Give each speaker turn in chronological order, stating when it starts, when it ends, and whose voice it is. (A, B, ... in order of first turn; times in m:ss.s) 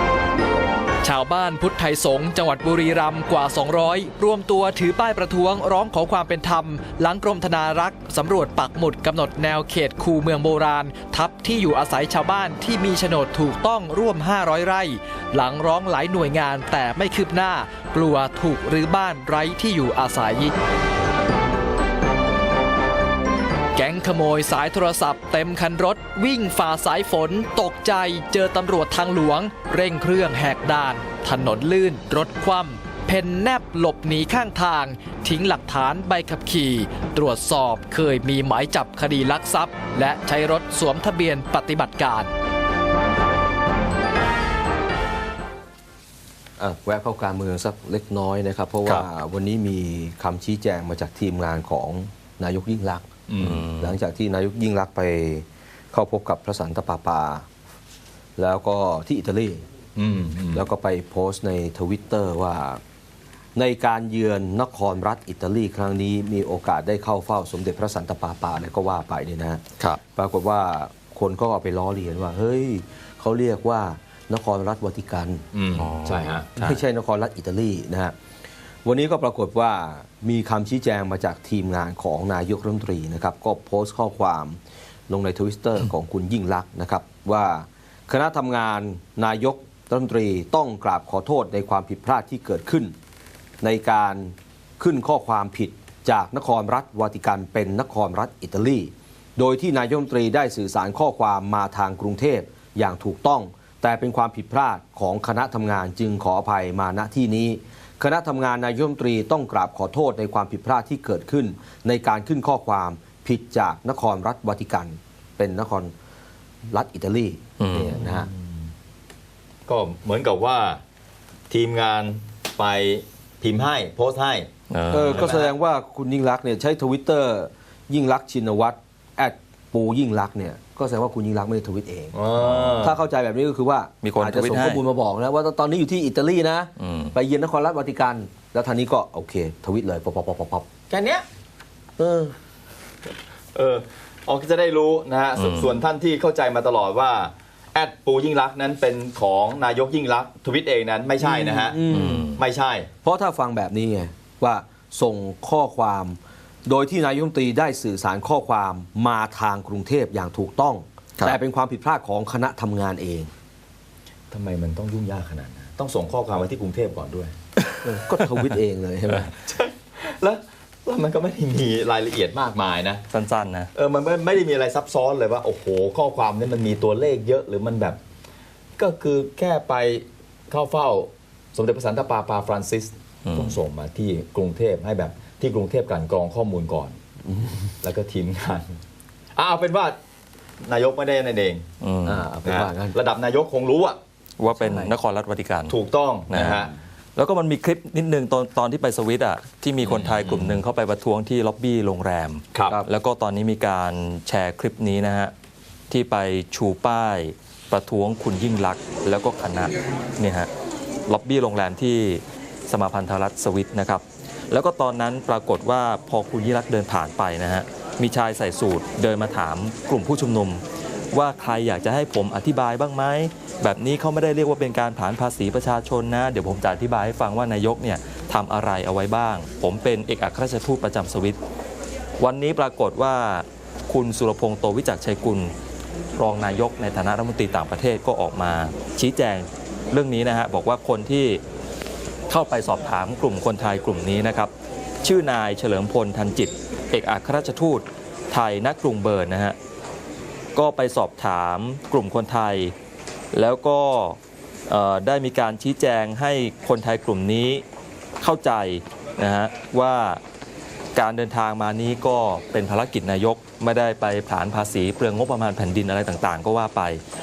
0:01.0-0:20.5 A
0:23.8-0:42.3 A
0:46.6-0:57.5 B
0:53.3-0:53.7 C
0:53.4-0:54.0 D
0:58.4-0:59.6 B
1:00.0-1:00.7 C
1:00.5-1:02.8 B
1:03.6-1:15.5 B
1:15.5-1:16.6 C
1:15.8-1:16.8 D
1:16.6-1:18.2 B
1:18.8-1:33.0 B
1:33.6-1:55.9 B
1:56.7-1:58.3 B
1:57.6-1:58.0 D
1:57.8-1:58.7 C
1:59.7-2:00.8 C
2:01.5-2:04.5 C
2:04.7-2:05.4 D
2:04.9-2:20.7 B
2:05.1-2:05.5 C
2:12.1-2:13.0 C
2:14.0-2:14.8 D
2:16.8-2:17.1 D
2:20.9-2:21.2 C
2:22.0-2:22.4 B
2:23.6-2:31.8 C
2:25.4-2:25.8 D
2:31.2-2:32.3 B
2:31.9-2:32.4 D
2:32.4-2:32.9 C
2:33.0-2:43.3 B
2:44.3-2:47.3 C
2:47.8-2:49.3 B
2:49.3-2:53.0 C
2:53.1-2:53.7 D
2:53.7-2:58.0 C
2:58.8-3:07.0 C
3:03.3-3:03.6 D
3:07.3-3:07.7 B
3:07.8-3:08.8 C
3:09.4-3:10.0 C
3:10.6-3:11.7 C
3:11.8-3:12.3 D
3:12.0-3:13.0 B
3:12.4-3:14.0 C
3:14.4-3:15.8 D
3:14.6-3:15.0 B
3:15.7-3:16.7 C
3:16.3-3:25.3 D
3:16.4-3:16.7 B
3:19.8-3:20.6 C
3:22.5-3:22.8 C
3:25.9-3:30.5 D
3:31.1-3:51.4 D
3:52.2-3:55.5 D
3:56.2-4:01.4 D
4:02.3-4:04.5 D
4:05.0-4:09.6 D
4:10.6-4:12.8 D
4:13.3-4:17.6 D
4:18.2-4:20.2 D
4:21.0-4:27.0 D